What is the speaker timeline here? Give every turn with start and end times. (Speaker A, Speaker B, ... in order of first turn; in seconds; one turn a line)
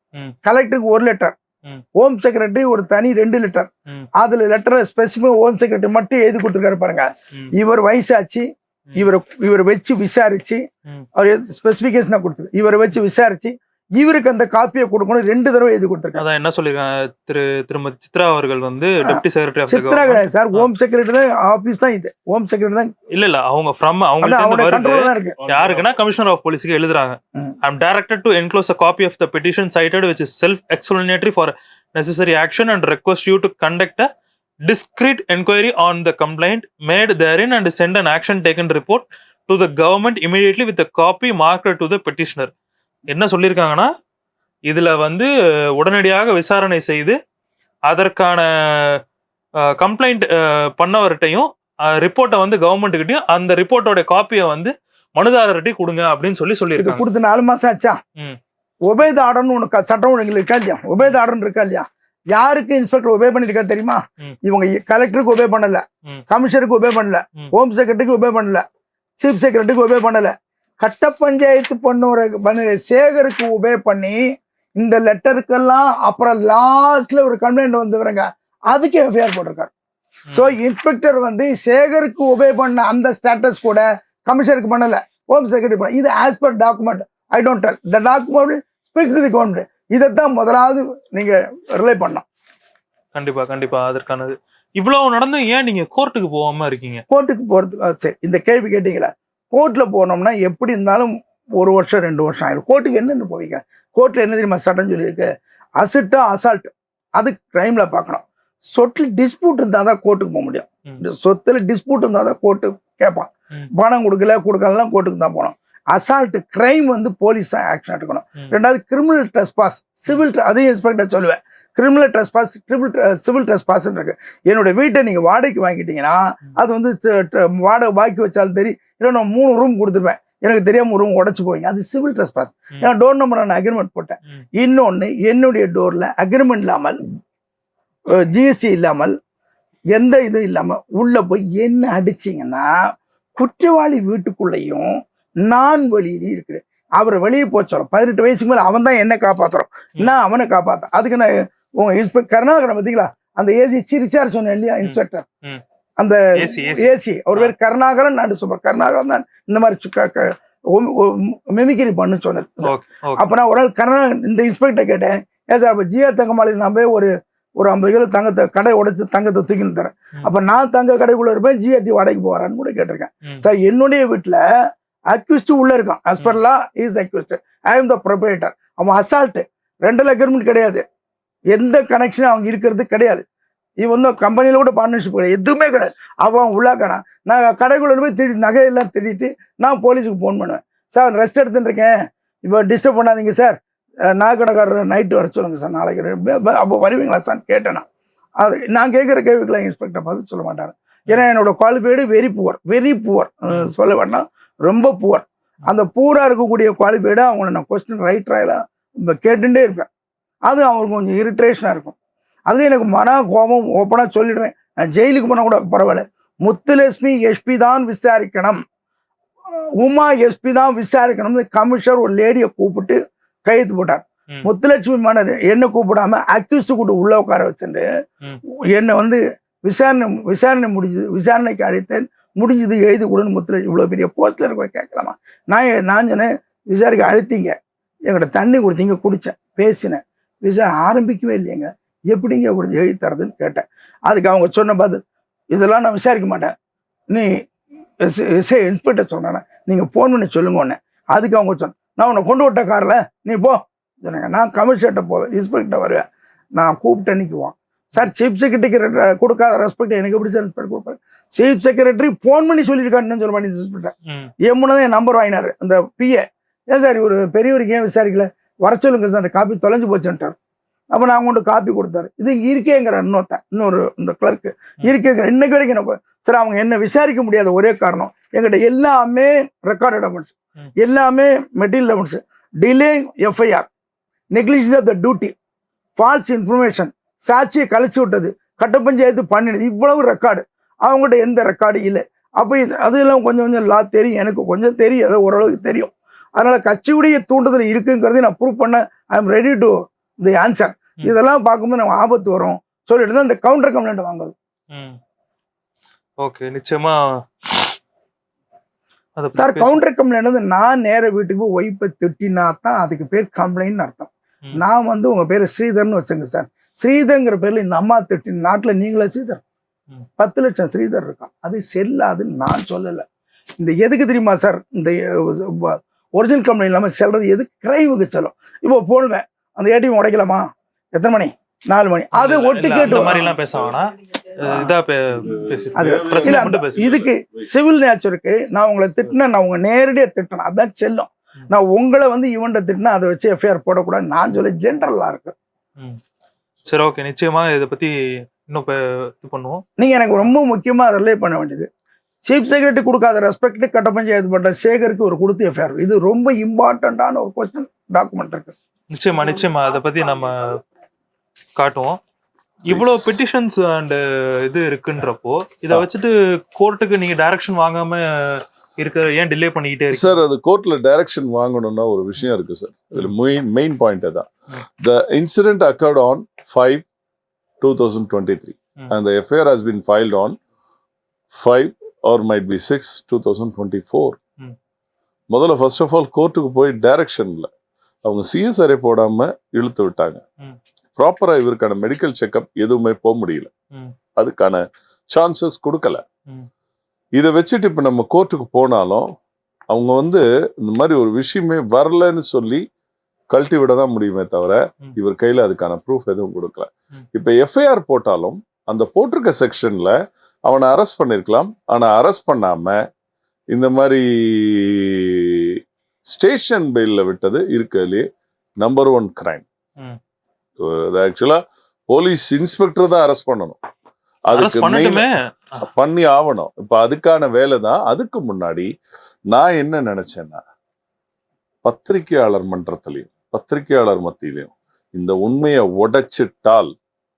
Speaker A: 0.5-1.4
Speaker A: 2.0-10.6
Speaker A: 11.2-16.2
Speaker B: 16.2-20.7
Speaker A: 19.0-22.9
Speaker B: 23.1-34.1
Speaker A: 24.2-25.4
Speaker B: 34.7-42.5
Speaker B: 43.1-43.9
Speaker B: 44.7-47.2
Speaker B: 47.9-49.0
Speaker B: 49.7-57.0
Speaker A: 56.8-58.0
Speaker A: 58.9-68.7
Speaker A: 69.2-74.2
Speaker A: 74.8-79.7
Speaker A: 80.3-92.3
Speaker B: 93.2-97.0
Speaker A: 97.1-105.3
Speaker A: 105.8-137.0
Speaker A: 138.2-139.2
Speaker A: 139.9-142.7
Speaker A: 143.4-144.9
Speaker A: 145.4-155.2
Speaker B: 154.8-155.6
Speaker A: 156.0-174.4
Speaker B: 156.3-157.5
Speaker B: 162.6-163.2
Speaker A: 175.1-180.8
Speaker A: 181.5-183.2
Speaker A: 183.8-191.9
Speaker A: 192.5-193.6
Speaker A: 194.2-197.9
Speaker A: 198.4-209.9
Speaker A: 210.5-212.0
Speaker A: 212.5-218.6
Speaker A: 219.8-227.8
Speaker A: 228.7-237.6
Speaker A: 238.1-245.0
Speaker A: 245.5-246.5
Speaker A: 248.0-256.0
Speaker A: 256.6-263.9
Speaker A: 264.5-270.4
Speaker A: 270.9-283.7
Speaker A: 284.3-285.3
Speaker A: 286.0-304.3
Speaker B: 304.7-305.0
Speaker B: 306.2-307.7
Speaker B: 309.2-309.8
Speaker A: 309.4-319.4
Speaker A: 320.2-323.1
Speaker A: 323.6-333.3
Speaker B: 332.2-337.1
Speaker A: 334.4-334.7
Speaker C: 335.3-337.1
Speaker A: 335.8-345.3
Speaker B: 346.7-347.9
Speaker B: 348.5-349.6
Speaker A: 349.8-351.7
Speaker A: 352.3-358.6
Speaker B: 358.9-360.6
Speaker B: 361.6-362.0
Speaker B: 362.7-370.2
Speaker C: 362.7-363.2
Speaker C: 369.9-376.9
Speaker C: 377.6-380.4
Speaker C: 381.3-384.2
Speaker C: 385.3-387.5
Speaker C: 388.1-390.2
Speaker C: 391.0-393.5
Speaker C: 394.2-396.0
Speaker C: 397.2-399.1
Speaker C: 399.7-402.6
Speaker C: 403.3-412.8
Speaker C: 413.5-418.1
Speaker C: 418.6-419.4
Speaker C: 420.6-423.6
Speaker C: 424.3-425.1
Speaker B: 424.3-425.6
Speaker C: 425.6-428.7
Speaker C: 429.3-430.4
Speaker C: 431.6-436.7